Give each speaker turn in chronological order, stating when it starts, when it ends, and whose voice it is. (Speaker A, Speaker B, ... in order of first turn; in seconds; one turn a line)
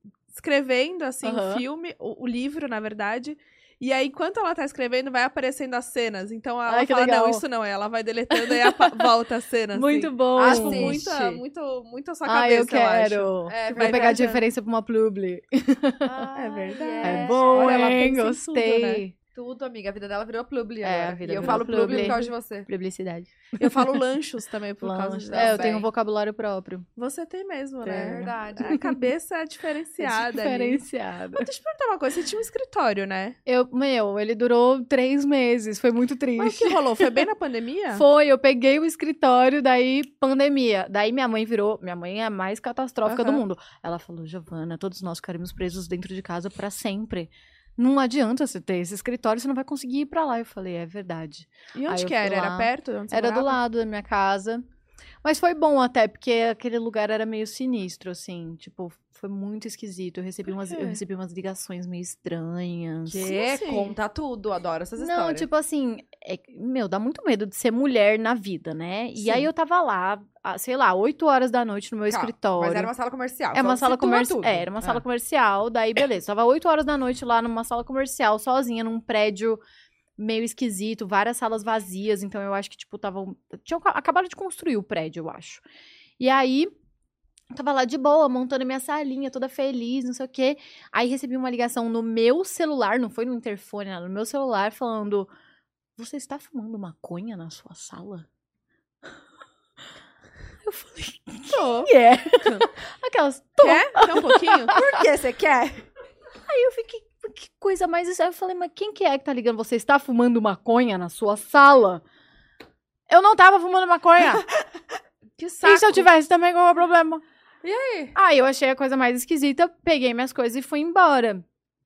Speaker A: 0.3-14.4
Speaker B: 1.2-1.6
Speaker B: 6.7-7.4
Speaker B: 8.3-9.0
Speaker B: 9.7-11.0
Speaker C: 10.4-11.4
Speaker B: 12.3-16.1
Speaker C: 13.5-14.3
Speaker C: 16.0-18.1
Speaker A: 16.3-19.0
Speaker B: 17.0-19.1
Speaker C: 19.3-22.7
Speaker B: 20.8-24.0
Speaker A: 21.6-22.2
Speaker A: 23.6-25.8
Speaker B: 24.8-26.9
Speaker C: 25.3-25.9
Speaker A: 27.0-30.8
Speaker B: 27.8-29.0
Speaker C: 27.9-28.8
Speaker B: 30.0-31.5
Speaker A: 31.4-33.4
Speaker B: 33.5-37.2
Speaker A: 36.4-38.1
Speaker B: 37.9-54.6
Speaker A: 43.1-43.4
Speaker A: 51.7-53.6
Speaker B: 55.2-63.3
Speaker A: 60.7-61.0
Speaker C: 63.1-65.5
Speaker A: 63.3-64.0
Speaker B: 65.0-72.9
Speaker C: 72.1-75.0
Speaker B: 73.5-79.6
Speaker B: 80.2-85.6
Speaker B: 86.2-86.7
Speaker B: 87.5-95.3
Speaker B: 96.0-98.3
Speaker B: 100.6-105.0
Speaker A: 101.5-101.9
Speaker A: 103.6-105.8
Speaker B: 106.5-112.0
Speaker B: 113.1-114.5
Speaker A: 115.4-116.1
Speaker B: 115.6-117.2
Speaker C: 117.6-118.1
Speaker B: 118.1-121.4